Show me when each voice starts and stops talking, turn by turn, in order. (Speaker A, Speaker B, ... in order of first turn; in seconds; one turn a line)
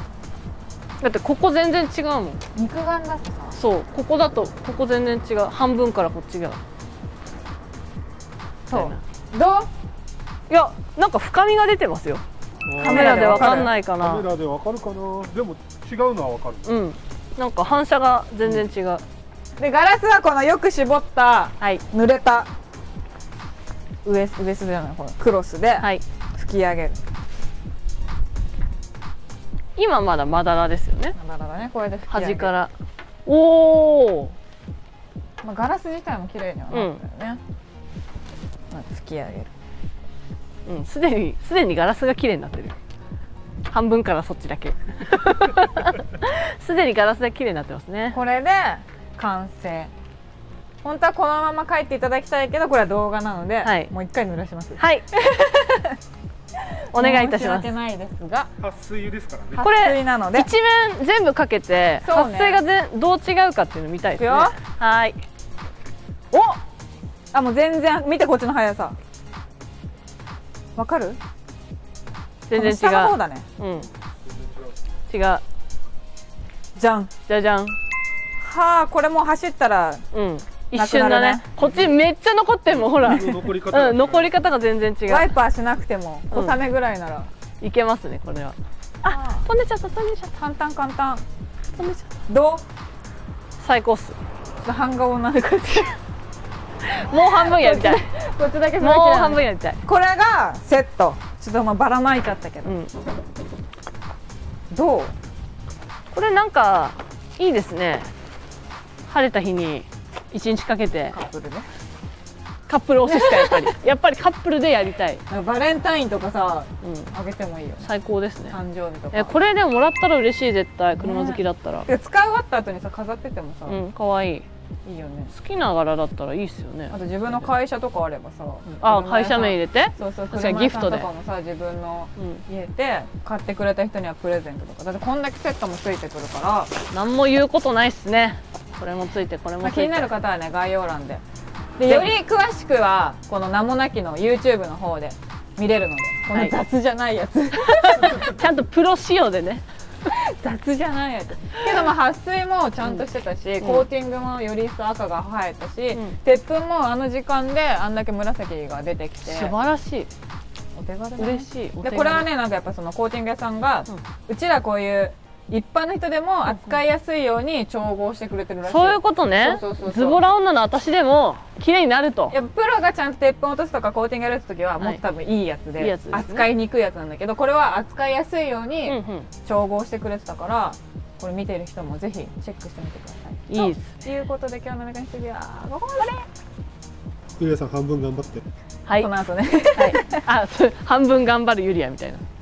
Speaker A: 1.0-2.4
Speaker B: 2.5-3.6
Speaker A: 3.5-6.6
Speaker B: 8.7-9.7
Speaker A: 8.7-9.0
Speaker A: 10.5-14.3
Speaker B: 12.8-13.7
Speaker C: 14.0-16.6
Speaker A: 16.6-19.0
Speaker B: 19.6-22.5
Speaker B: 24.1-27.0
Speaker A: 29.8-31.2
Speaker B: 31.2-32.5
Speaker A: 32.1-32.7
Speaker A: 33.3-34.4
Speaker B: 35.4-37.4
Speaker A: 36.7-37.0
Speaker B: 38.7-39.5
Speaker A: 40.7-42.8
Speaker A: 43.7-48.2
Speaker B: 48.1-49.9
Speaker B: 50.8-56.0
Speaker A: 53.6-53.9
Speaker A: 54.8-55.1
Speaker B: 56.6-58.5
Speaker A: 56.9-57.7
Speaker C: 58.6-59.5
Speaker B: 59.5-60.5
Speaker A: 59.6-65.2
Speaker B: 62.0-62.6
Speaker B: 64.2-64.6
Speaker B: 66.3-66.6
Speaker B: 67.3-69.0
Speaker B: 70.8-71.2
Speaker A: 72.5-73.9
Speaker B: 72.5-73.5
Speaker A: 75.1-75.4
Speaker B: 76.8-77.1
Speaker A: 77.3-77.8
Speaker B: 78.4-80.0
Speaker A: 80.1-85.3
Speaker B: 80.7-81.6
Speaker B: 83.0-83.5
Speaker C: 83.2-84.1
Speaker B: 85.1-87.3
Speaker A: 86.3-86.6
Speaker A: 87.6-88.6
Speaker B: 89.0-89.5
Speaker A: 89.1-90.3
Speaker B: 90.4-91.2
Speaker A: 91.8-92.1
Speaker B: 92.3-92.6
Speaker A: 93.6-94.2
Speaker B: 94.6-96.0
Speaker A: 96.8-98.0
Speaker B: 97.0-102.8
Speaker A: 98.8-99.8
Speaker A: 102.7-102.9
Speaker B: 104.7-105.2
Speaker A: 106.1-108.1
Speaker A: 109.1-111.2
Speaker B: 111.1-111.7
Speaker A: 112.7-115.2
Speaker B: 113.1-113.7
Speaker B: 115.3-117.9
Speaker A: 116.8-117.1
Speaker A: 117.8-118.6
Speaker B: 118.5-119.3
Speaker A: 119.1-121.9
Speaker B: 121.0-123.8
Speaker A: 123.7-124.5
Speaker B: 124.8-125.3
Speaker A: 125.3-127.5
Speaker B: 126.9-136.7
Speaker A: 128.7-131.1
Speaker A: 132.2-132.4
Speaker A: 136.9-140.1
Speaker B: 139.6-141.2
Speaker B: 141.8-148.4
Speaker A: 147.8-149.6
Speaker B: 150.1-159.5
Speaker A: 159.2-160.1
Speaker B: 160.8-170.2
Speaker A: 161.2-162.3
Speaker A: 168.6-172.4
Speaker B: 172.3-186.3
Speaker A: 175.8-176.5
Speaker A: 178.8-179.3
Speaker A: 183.5-184.0
Speaker C: 187.4-188.4
Speaker B: 189.0-190.2
Speaker A: 189.8-192.2